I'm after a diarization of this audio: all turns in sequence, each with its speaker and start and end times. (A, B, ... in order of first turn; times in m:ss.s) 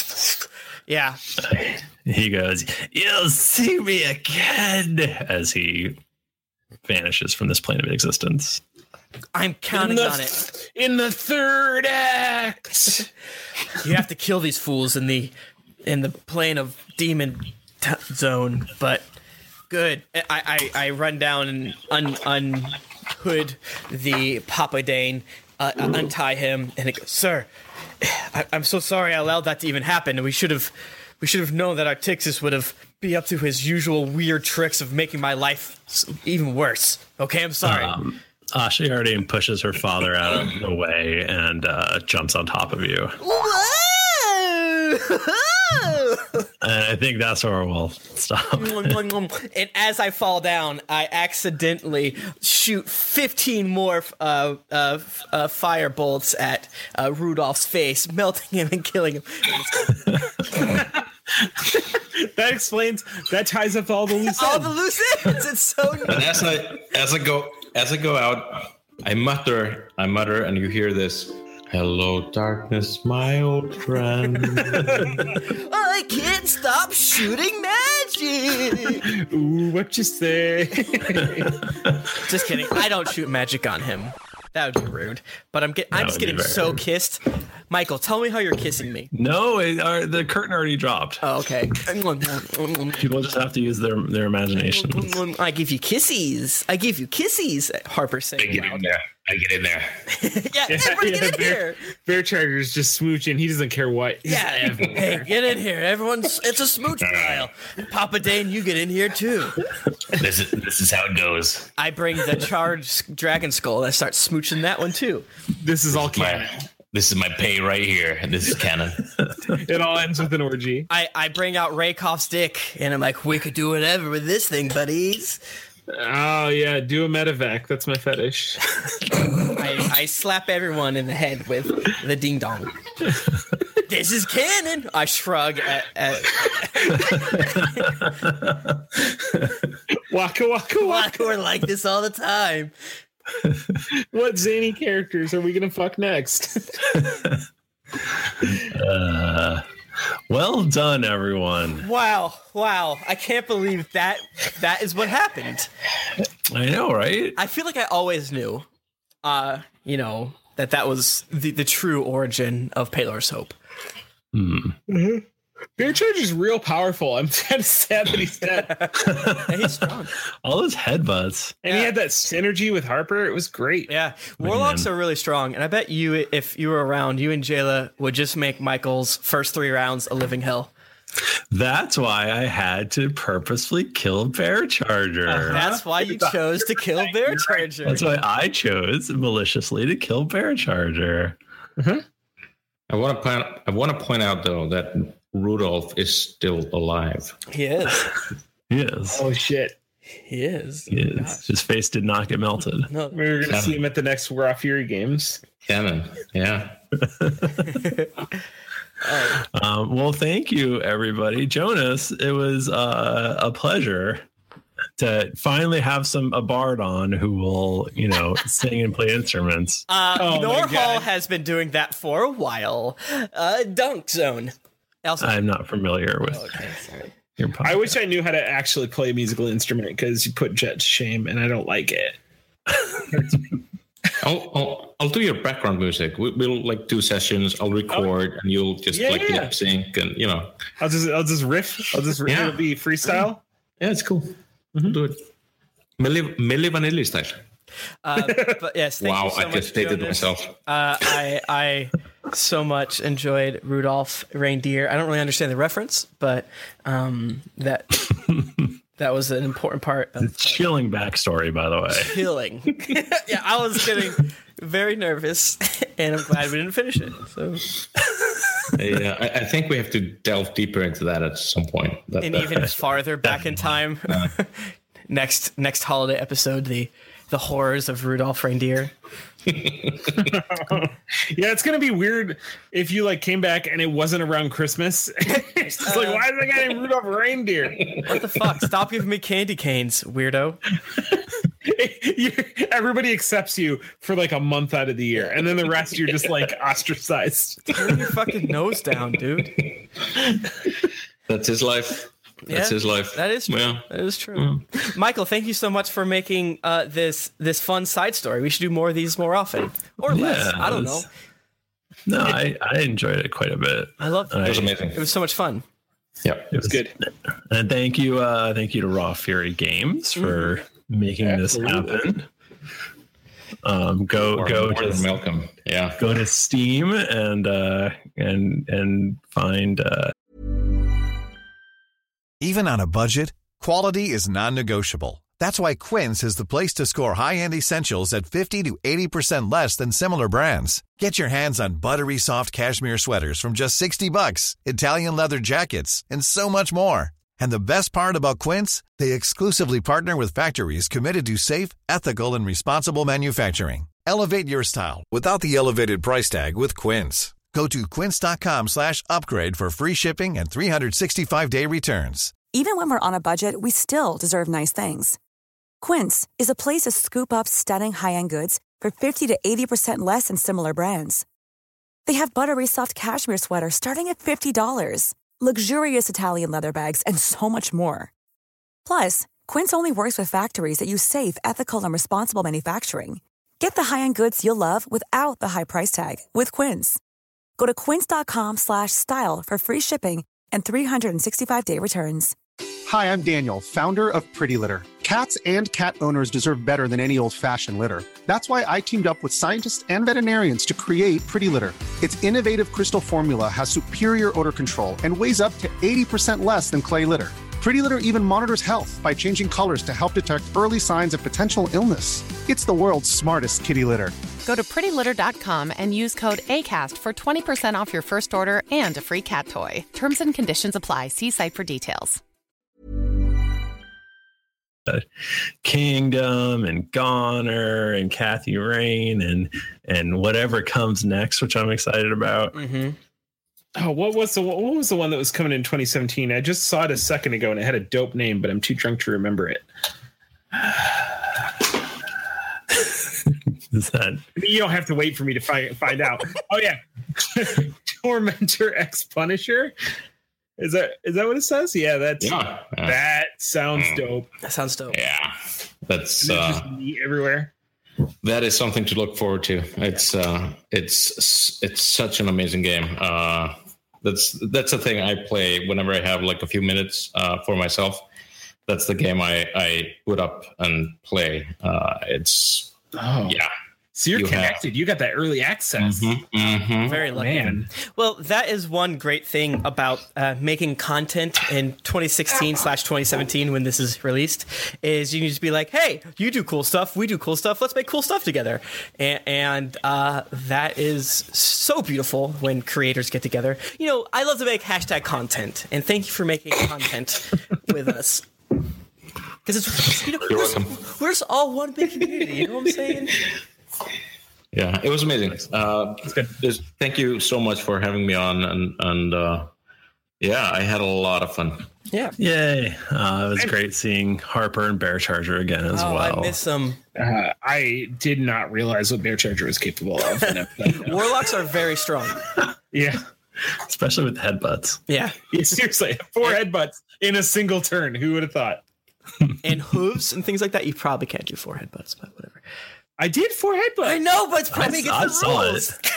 0:00.9-0:01.2 A
0:01.4-0:06.0 B
0:06.9-0:08.6 B
0:09.3-0:10.4 A
0:09.7-0:10.1 C
0:10.8-0:13.0 C
0:13.8-0:15.3 A
0:15.8-0:19.0 A
0:19.7-0:27.5 A
0:28.0-0:38.0 A
0:37.6-0:43.2 B
0:43.2-0:46.5 A
0:46.6-0:49.0 B
0:48.6-1:00.5 A
1:02.2-1:04.7 C
1:04.3-1:06.4 A
1:06.0-1:15.2 D
1:15.3-1:19.1 A
1:19.1-1:21.5 C
1:22.2-1:29.1 A
1:25.9-1:26.8 B
1:29.1-1:31.2 B
1:31.2-1:33.1 A
1:33.0-1:35.2 B
1:34.5-1:38.9 A
1:38.4-1:40.0 D
1:40.2-1:41.8 A
1:40.7-1:45.2 C
1:44.3-1:49.6 A
1:47.0-1:47.5 D
1:50.2-1:51.7 D
1:51.8-1:55.2 A
1:55.6-1:56.5 C
1:55.9-1:59.1 D
1:59.7-2:00.9 C
2:00.9-2:05.4 A
2:05.9-2:08.6 C
2:09.5-2:12.8 A
2:13.9-2:17.9 A
2:16.9-2:19.5 B
2:20.1-2:21.2 C
2:20.8-2:22.7 A
2:23.4-2:23.8 B
2:24.1-2:26.7 C
2:26.9-2:27.4 B
2:28.5-2:29.6 B
2:30.3-2:31.9 B
2:31.8-2:35.7 A
2:36.5-2:37.4 B
2:37.4-2:38.6 A
2:39.2-2:43.5 A
2:44.3-2:44.8 B
2:45.8-2:48.9 C
2:48.8-2:50.1 A
2:49.0-2:49.8 B
2:50.4-2:51.6 B
2:51.6-2:53.9 C
2:51.7-2:51.9 A
2:53.9-3:00.7 A
2:54.4-2:54.9 B
3:01.5-3:05.6 B
3:05.3-3:07.6 C
3:05.5-3:08.1 A
3:07.8-3:11.4 B
3:12.9-3:17.4 D
3:17.5-3:18.1 A
3:18.7-3:19.2 B
3:19.1-3:19.7 C
3:20.3-3:21.5 A
3:20.9-3:22.9 B
3:22.9-3:23.5 A
3:23.1-3:25.4 C
3:23.5-3:23.8 D
3:25.6-3:26.8 D
3:27.2-3:27.7 B
3:29.0-3:29.4 A
3:29.4-3:34.2 B
3:35.0-3:39.9 B
3:39.9-3:44.5 A
3:40.1-3:41.1 C
3:45.0-3:45.3 A
3:45.2-3:46.4 B
3:46.2-3:47.1 A
3:47.4-3:48.0 B
3:47.6-3:52.2 C
3:54.2-4:00.6 D
3:58.9-3:59.5 C
4:00.8-4:03.4 C
4:02.2-4:02.6 D
4:03.8-4:05.2 D
4:06.0-4:07.4 D
4:08.0-4:18.1 A
4:09.0-4:10.5 D
4:19.0-4:20.6 A
4:20.2-4:22.2 B
4:22.0-4:27.7 A
4:28.7-4:32.7 D
4:32.2-4:38.9 A
4:39.5-4:40.2 D
4:41.3-4:47.8 C
4:45.8-4:46.2 A
4:48.0-4:50.6 A
4:51.7-4:57.9 C
4:57.7-4:59.5 A
5:01.3-5:04.6 D
5:02.5-5:11.1 A
5:10.1-5:11.0 B
5:12.0-5:14.7 B
5:14.0-5:15.6 A
5:14.4-5:15.0 D
5:16.2-5:16.5 D
5:16.5-5:16.8 B
5:16.7-5:16.9 C
5:17.5-5:22.3 B
5:20.2-5:20.5 A
5:21.3-5:21.8 C
5:23.6-5:25.1 B
5:24.3-5:26.0 D
5:26.0-5:30.1 B
5:32.4-6:02.4 E
6:02.4-6:05.2 F
6:05.8-6:11.2 F
6:12.0-6:18.1 F
6:18.8-6:27.0 F
6:27.6-6:32.3 F
6:32.9-6:54.2 G
6:54.4-7:02.2 H
7:05.6-7:12.6 B
7:12.5-7:13.0 A
7:13.8-7:19.7 C
7:23.3-7:24.2 B
7:24.4-7:29.7 C
7:30.6-7:34.3 C
7:32.2-7:33.0 D
7:33.7-7:34.0 D
7:34.4-7:35.0 A
7:34.9-7:36.7 D
7:36.2-7:37.5 C
7:38.2-7:48.0 D
7:48.7-7:52.7 D
7:53.0-7:53.4 C
7:53.2-7:53.5 D
7:54.0-7:56.1 C
7:54.1-7:54.6 D
7:55.8-7:57.0 D
7:56.9-8:18.2 A
7:56.9-7:57.7 C
8:19.4-8:23.3 A
8:20.2-8:20.8 D
8:24.5-8:29.5 D
8:30.2-8:31.7 D
8:31.9-8:32.2 A
8:32.2-8:36.3 B
8:35.7-8:36.8 A
8:37.0-8:41.0 C
8:40.3-8:42.2 A
8:42.7-8:43.0 C
8:43.6-8:44.8 B
8:44.9-8:45.4 A
8:45.3-8:48.6 C
8:49.4-8:52.4 A
8:53.0-8:54.0 C
8:53.8-8:55.7 A
8:54.5-8:55.7 B